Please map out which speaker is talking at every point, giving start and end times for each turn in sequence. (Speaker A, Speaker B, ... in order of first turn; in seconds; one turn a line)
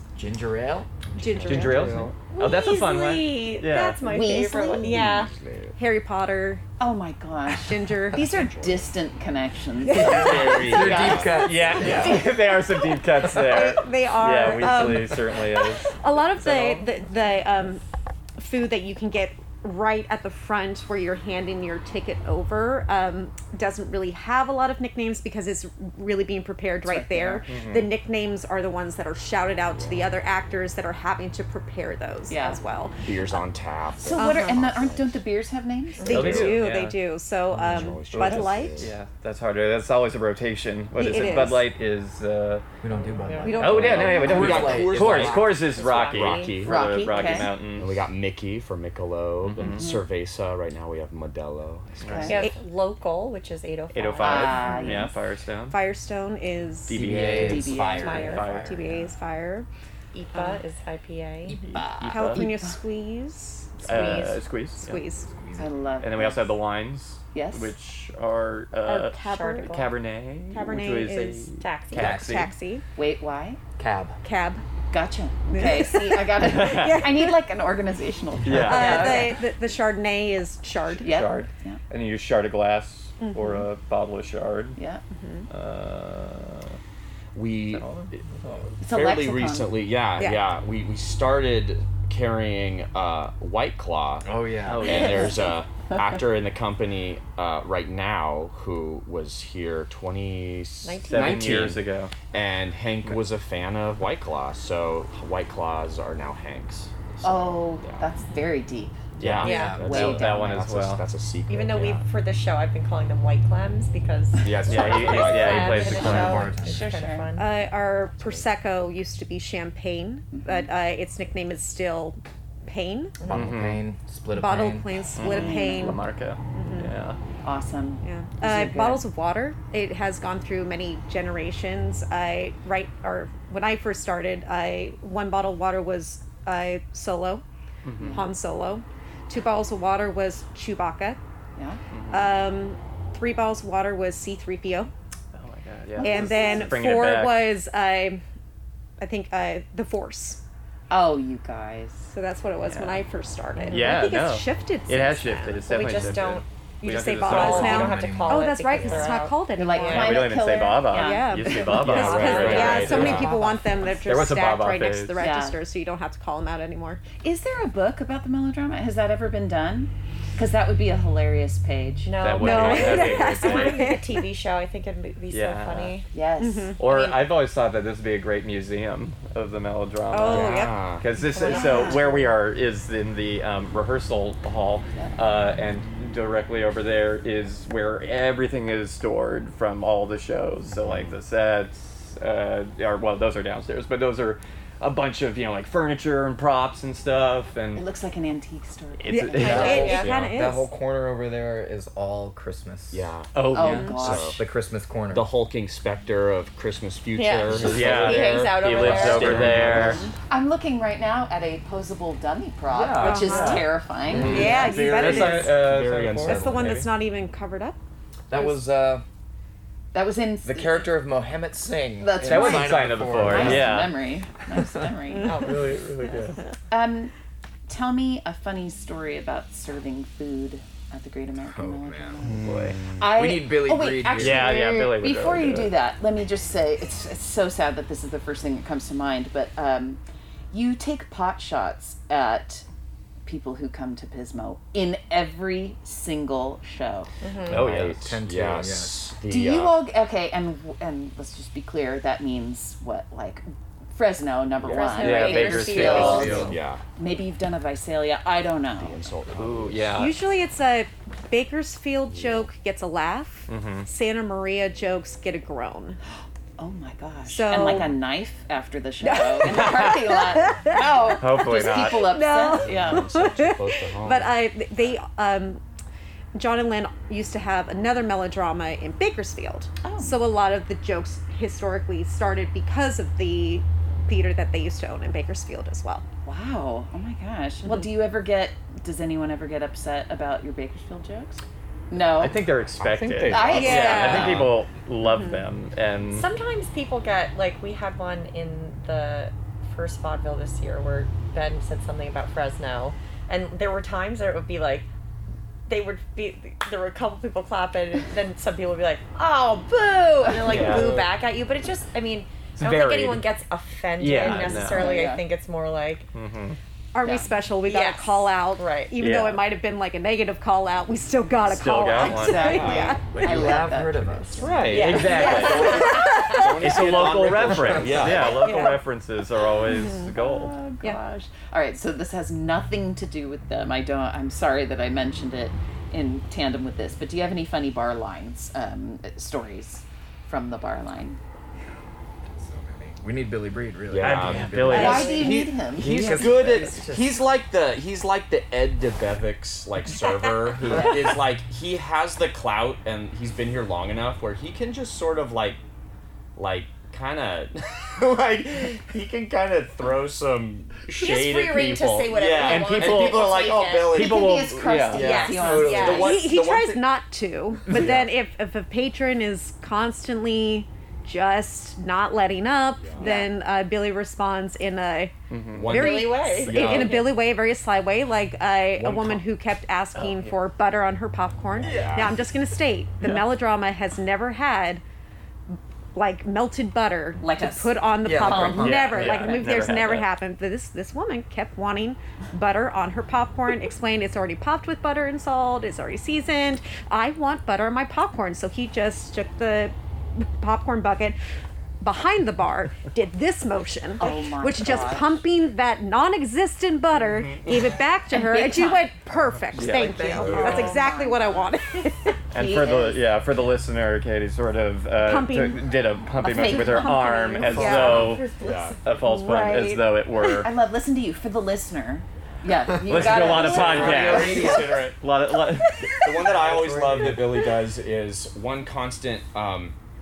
Speaker A: 0.1-2.1
Speaker B: 1.2-2.0
Speaker C: 1.4-4.1
Speaker D: 2.4-5.3
Speaker E: 4.0-5.1
Speaker B: 4.2-5.1
Speaker F: 4.8-5.8
Speaker B: 5.8-6.6
Speaker E: 6.8-12.1
Speaker B: 7.5-8.3
Speaker F: 8.1-8.9
Speaker F: 9.9-12.2
Speaker B: 10.0-10.4
Speaker A: 10.0-12.2
Speaker C: 11.4-16.9
Speaker B: 13.3-17.8
Speaker B: 18.4-33.4
Speaker E: 26.8-27.5
Speaker C: 27.5-27.9
Speaker F: 29.7-30.1
Speaker E: 32.3-32.6
Speaker F: 33.0-35.2
Speaker E: 34.0-36.5
Speaker B: 34.2-34.7
Speaker B: 36.0-38.9
Speaker C: 36.0-37.0
Speaker F: 36.1-36.6
Speaker F: 37.5-39.0
Speaker C: 38.1-42.6
Speaker B: 41.0-41.7
Speaker A: 42.8-45.7
Speaker D: 43.2-43.8
Speaker E: 43.4-44.7
Speaker C: 43.5-48.1
Speaker F: 43.7-52.4
Speaker D: 45.6-46.5
Speaker E: 46.5-47.6
Speaker C: 49.4-49.9
Speaker E: 49.7-50.0
Speaker C: 52.0-52.4
Speaker E: 52.0-52.5
Speaker D: 52.3-55.0
Speaker C: 53.9-55.8
Speaker E: 54.2-55.1
Speaker B: 55.7-57.0
Speaker C: 56.9-58.8
Speaker A: 56.9-59.1
Speaker E: 57.3-58.4
Speaker B: 58.0-59.7
Speaker D: 58.0-58.5
Speaker D: 60.1-61.6
Speaker A: 61.5-62.4
Speaker C: 61.7-62.5
Speaker B: 62.1-65.3
Speaker C: 63.8-65.0
Speaker A: 65.2-65.7
Speaker E: 65.6-66.5
Speaker C: 66.0-72.5
Speaker E: 67.3-67.7
Speaker B: 68.8-69.9
Speaker D: 69.2-69.9
Speaker B: 70.5-72.8
Speaker A: 71.9-72.5
Speaker E: 73.0-73.6
Speaker A: 73.8-74.2
Speaker B: 74.2-74.6
Speaker E: 74.9-79.4
Speaker B: 75.5-77.4
Speaker C: 76.4-77.1
Speaker C: 78.4-79.3
Speaker B: 78.5-81.2
Speaker E: 81.0-81.8
Speaker C: 81.0-84.8
Speaker B: 83.2-83.7
Speaker E: 84.8-85.0
Speaker B: 85.2-85.5
Speaker C: 85.5-86.8
Speaker F: 87.3-87.9
Speaker C: 87.7-88.8
Speaker F: 88.8-108.1
Speaker E: 88.8-89.8
Speaker B: 90.2-90.5
Speaker A: 94.2-95.0
Speaker C: 94.6-95.4
Speaker E: 94.9-95.5
Speaker D: 100.8-101.7
Speaker C: 101.1-102.1
Speaker E: 107.2-110.7
Speaker F: 109.2-112.0
Speaker C: 109.2-111.1
Speaker A: 109.4-110.1
Speaker D: 109.5-109.7
Speaker D: 111.5-117.5
Speaker F: 114.4-116.3
Speaker C: 114.7-116.5
Speaker A: 115.7-116.9
Speaker E: 116.5-117.3
Speaker B: 117.4-123.3
Speaker F: 118.1-118.5
Speaker E: 120.3-120.7
Speaker C: 123.2-123.9
Speaker A: 123.3-125.1
Speaker B: 124.3-126.9
Speaker C: 125.1-127.2
Speaker E: 125.2-126.0
Speaker E: 127.4-129.1
Speaker B: 128.0-137.4
Speaker C: 137.8-138.3
Speaker E: 138.0-138.3
Speaker B: 138.1-141.2
Speaker E: 141.6-141.8
Speaker C: 141.9-142.4
Speaker B: 142.1-144.9
Speaker C: 145.3-147.5
Speaker E: 145.9-146.7
Speaker B: 146.0-148.2
Speaker B: 149.0-150.4
Speaker E: 150.9-152.1
Speaker B: 152.1-155.8
Speaker C: 152.6-153.0
Speaker C: 153.6-158.0
Speaker D: 155.7-156.4
Speaker B: 156.8-167.0
Speaker D: 157.2-160.2
Speaker A: 157.2-159.2
Speaker E: 159.6-162.8
Speaker C: 159.8-163.4
Speaker D: 161.6-163.2
Speaker F: 161.8-163.3
Speaker A: 162.9-163.3
Speaker C: 164.0-165.2
Speaker E: 165.2-165.6
Speaker E: 167.2-172.2
Speaker D: 172.1-176.1
Speaker C: 172.2-173.9
Speaker B: 172.4-174.2
Speaker C: 175.3-176.0
Speaker E: 176.1-177.2
Speaker B: 176.4-176.8
Speaker C: 176.8-197.9
Speaker B: 180.1-181.9
Speaker F: 180.3-181.1
Speaker D: 181.2-182.2
Speaker E: 181.5-182.0
Speaker F: 190.8-191.2
Speaker E: 197.8-200.1
Speaker C: 199.0-200.1
Speaker B: 199.1-200.7
Speaker A: 199.4-203.1
Speaker F: 199.5-200.4
Speaker F: 202.9-204.4
Speaker C: 203.3-204.1
Speaker E: 203.5-204.4
Speaker A: 204.2-205.3
Speaker F: 205.1-210.1
Speaker D: 207.2-209.5
Speaker A: 207.5-208.1
Speaker C: 207.6-210.1
Speaker A: 209.0-210.0
Speaker E: 209.2-214.5
Speaker A: 212.7-214.8
Speaker F: 212.9-213.4
Speaker B: 213.0-213.7
Speaker C: 213.3-216.8
Speaker F: 214.1-216.8
Speaker B: 214.2-215.7
Speaker B: 216.2-217.8
Speaker A: 218.3-219.1
Speaker E: 219.9-220.9
Speaker A: 220.4-223.9
Speaker E: 222.0-225.4
Speaker C: 222.2-224.0
Speaker D: 225.2-225.7
Speaker C: 225.2-226.4
Speaker E: 226.7-227.1
Speaker E: 227.7-232.4
Speaker A: 231.4-234.7
Speaker F: 232.2-233.2
Speaker E: 233.0-240.0
Speaker C: 234.1-235.8
Speaker E: 240.5-242.7
Speaker E: 243.2-247.1
Speaker D: 247.2-247.6
Speaker C: 247.5-248.1
Speaker F: 247.5-249.9
Speaker A: 247.6-249.1
Speaker E: 249.3-259.1
Speaker F: 254.6-256.8
Speaker D: 254.7-256.5
Speaker C: 254.9-256.5
Speaker A: 256.0-256.5
Speaker F: 258.7-260.1
Speaker C: 259.4-260.2
Speaker B: 260.0-266.0
Speaker F: 262.1-262.5
Speaker C: 263.5-263.9
Speaker E: 266.6-273.1
Speaker B: 267.3-268.0
Speaker B: 269.0-275.6
Speaker C: 269.5-269.9
Speaker C: 271.1-272.2
Speaker F: 272.5-274.4
Speaker B: 276.4-286.1
Speaker E: 279.8-280.2
Speaker E: 286.2-292.4
Speaker C: 292.2-296.3
Speaker F: 292.7-294.6
Speaker E: 293.3-294.5
Speaker B: 293.6-294.4
Speaker B: 295.0-295.4
Speaker D: 296.1-304.9
Speaker D: 305.7-316.1
Speaker E: 310.2-310.6
Speaker C: 310.4-311.1
Speaker C: 312.6-313.3
Speaker C: 314.0-315.1
Speaker E: 314.2-315.2
Speaker C: 316.1-316.6
Speaker B: 316.9-323.4
Speaker D: 317.1-318.9
Speaker C: 319.0-319.5
Speaker C: 321.4-323.2
Speaker E: 321.9-325.0
Speaker F: 322.4-323.0
Speaker A: 323.1-324.8
Speaker F: 324.4-328.6
Speaker C: 324.5-330.6
Speaker D: 324.7-326.1
Speaker B: 325.2-326.2
Speaker D: 328.3-328.8
Speaker B: 329.7-330.1
Speaker E: 330.1-341.2
Speaker A: 342.2-347.2
Speaker F: 343.9-355.6
Speaker C: 344.0-346.6
Speaker E: 344.7-346.2
Speaker D: 344.7-345.2
Speaker F: 356.4-364.4
Speaker D: 360.9-364.2
Speaker C: 362.4-365.3
Speaker E: 363.8-366.2
Speaker D: 364.9-366.2
Speaker F: 364.9-366.9
Speaker A: 365.3-366.1
Speaker B: 365.9-384.8
Speaker F: 367.7-368.1
Speaker F: 372.8-373.1
Speaker D: 373.0-373.3
Speaker C: 375.3-375.9
Speaker F: 375.5-377.2
Speaker D: 375.7-377.1
Speaker F: 378.7-379.3
Speaker C: 380.0-380.4
Speaker F: 381.6-382.3
Speaker A: 381.6-382.1
Speaker B: 385.5-401.2
Speaker E: 387.2-389.4
Speaker A: 388.0-388.9
Speaker C: 388.5-390.1
Speaker B: 401.8-412.2
Speaker E: 404.0-405.2
Speaker F: 407.0-407.7
Speaker E: 408.1-408.9
Speaker C: 409.5-410.3
Speaker A: 409.6-410.8
Speaker F: 410.2-410.7
Speaker E: 410.2-411.5
Speaker C: 412.3-420.5
Speaker E: 412.3-413.1
Speaker B: 414.9-418.2
Speaker E: 416.2-417.8
Speaker F: 417.4-418.9
Speaker D: 417.9-418.8
Speaker B: 419.0-419.9
Speaker E: 419.5-424.6
Speaker F: 422.3-425.0
Speaker C: 422.8-426.1
Speaker A: 422.9-424.8
Speaker F: 426.0-429.8
Speaker A: 426.3-427.5